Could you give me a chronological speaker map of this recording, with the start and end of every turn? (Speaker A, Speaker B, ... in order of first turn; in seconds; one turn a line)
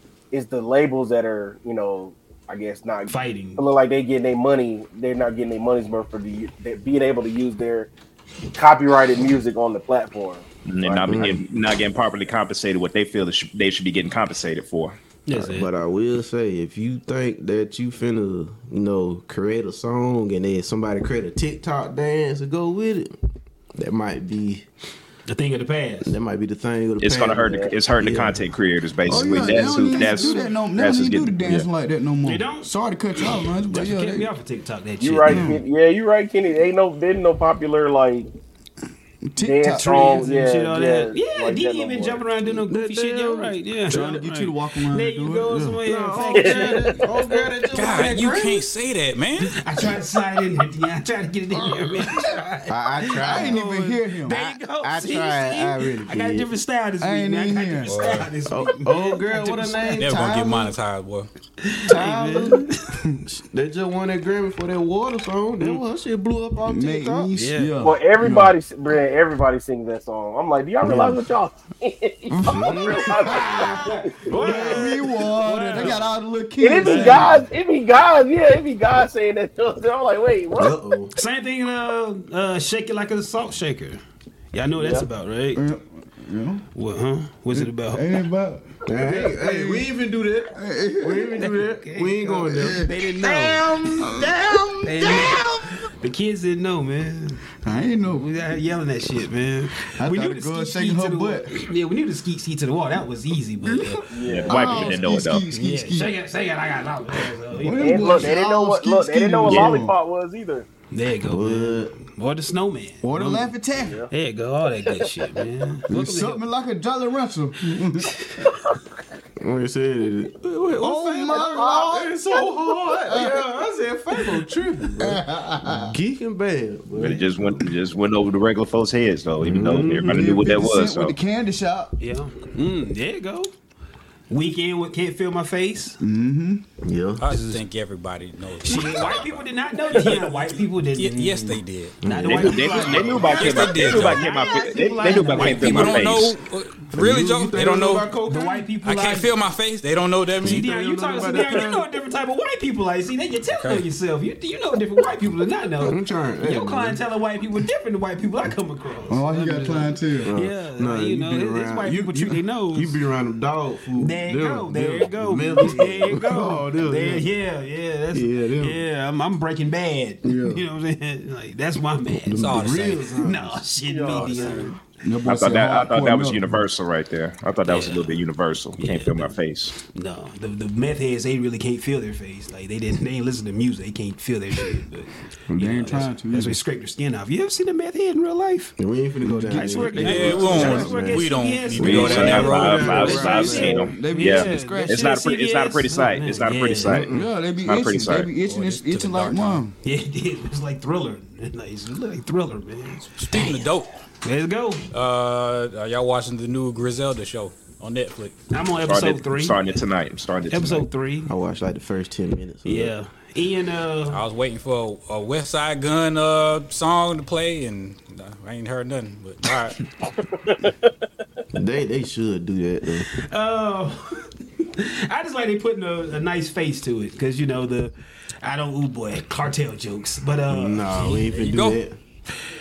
Speaker A: 0.3-7.9
Speaker B: 3.1-3.6
Speaker A: 8.5-11.4
Speaker C: 10.7-15.0
Speaker D: 11.1-11.4
Speaker B: 15.3-15.7
Speaker D: 15.3-23.2
Speaker D: 23.7-24.6
Speaker B: 25.3-26.1
Speaker D: 26.0-28.5
Speaker C: 27.0-31.7
Speaker A: 27.4-27.7
Speaker E: 29.1-34.3
Speaker D: 29.1-30.1
Speaker B: 29.9-30.4
Speaker B: 32.2-32.7
Speaker B: 33.7-35.5
Speaker A: 35.0-38.3
Speaker E: 35.2-35.6
Speaker E: 39.2-40.2
Speaker A: 39.4-42.2
Speaker B: 39.8-47.3
Speaker D: 42.5-43.6
Speaker E: 43.9-45.6
Speaker D: 45.5-48.7
Speaker A: 46.3-47.3
Speaker F: 47.7-49.5
Speaker B: 49.4-60.1
Speaker D: 51.5-53.8
Speaker E: 53.2-54.4
Speaker D: 54.3-56.5
Speaker E: 57.0-58.0
Speaker F: 57.9-58.3
Speaker D: 58.5-60.7
Speaker F: 60.0-61.3
Speaker B: 61.6-63.1
Speaker D: 61.9-62.7
Speaker D: 63.2-67.3
Speaker E: 66.7-68.6
Speaker B: 67.3-67.7
Speaker A: 67.8-74.2
Speaker D: 70.8-71.2
Speaker E: 72.3-73.7
Speaker D: 72.4-73.1
Speaker B: 73.2-76.1
Speaker E: 74.3-77.5
Speaker D: 74.4-74.8
Speaker A: 76.6-80.8
Speaker B: 76.8-77.4
Speaker D: 80.5-81.1
Speaker B: 81.1-84.0
Speaker B: 84.5-85.6
Speaker A: 84.8-85.0
Speaker E: 85.5-86.6
Speaker B: 86.7-88.0
Speaker E: 87.5-89.9
Speaker D: 88.8-94.6
Speaker E: 90.5-91.4
Speaker B: 91.3-93.6
Speaker E: 92.4-93.0
Speaker E: 93.7-95.5
Speaker B: 94.8-97.5
Speaker E: 97.6-98.3
Speaker B: 98.1-104.1
Speaker E: 99.8-101.5
Speaker E: 103.6-106.1
Speaker A: 104.1-104.9
Speaker C: 104.3-105.5
Speaker B: 105.5-108.2
Speaker E: 107.5-109.9
Speaker A: 107.7-110.7
Speaker B: 110.9-113.5
Speaker D: 111.2-112.0
Speaker E: 113.0-114.0
Speaker A: 113.8-114.1
Speaker B: 114.1-116.4
Speaker E: 115.9-118.2
Speaker D: 119.4-127.5
Speaker E: 120.8-123.5
Speaker E: 125.0-126.0
Speaker C: 127.0-131.2
Speaker D: 129.4-130.3
Speaker E: 130.1-131.9
Speaker B: 132.0-133.5
Speaker B: 134.3-136.0
Speaker E: 136.0-136.7
Speaker D: 136.8-137.2
Speaker F: 137.2-140.3
Speaker B: 137.3-137.6
Speaker B: 138.6-146.1
Speaker F: 140.9-142.0
Speaker D: 142.0-142.8
Speaker C: 142.2-146.3
Speaker F: 143.2-144.3
Speaker F: 145.1-148.1
Speaker D: 146.9-148.7
Speaker B: 148.3-149.3
Speaker F: 148.8-150.7
Speaker D: 150.4-151.9
Speaker B: 150.4-163.0
Speaker F: 153.5-153.8
Speaker D: 155.8-157.0
Speaker E: 159.1-160.3
Speaker D: 160.2-167.3
Speaker B: 164.0-174.7
Speaker D: 168.1-168.8
Speaker D: 170.3-170.6
Speaker D: 172.2-174.6
Speaker F: 172.3-173.1
Speaker A: 173.8-174.8
Speaker E: 175.0-176.6
Speaker C: 175.2-179.7
Speaker B: 177.7-178.1
Speaker B: 178.8-188.8
Speaker D: 185.5-186.1
Speaker E: 185.6-186.6
Speaker D: 188.8-191.2
Speaker E: 189.2-190.0
Speaker B: 189.5-197.0
Speaker F: 190.0-193.2
Speaker C: 191.8-197.1
Speaker D: 191.9-193.8
Speaker E: 193.1-195.1
Speaker D: 196.9-197.3
Speaker E: 197.1-199.8
Speaker C: 197.6-198.3
Speaker F: 198.4-199.6
Speaker B: 199.8-203.7
Speaker F: 203.2-203.9
Speaker B: 204.2-204.9
Speaker F: 204.9-208.3
Speaker B: 208.5-209.8
Speaker C: 208.8-210.9
Speaker B: 210.5-211.3
Speaker D: 211.2-212.9
Speaker B: 212.6-214.2
Speaker F: 214.1-219.8
Speaker D: 221.5-223.1
Speaker B: 223.1-231.3
Speaker D: 230.5-232.0
Speaker F: 231.3-231.8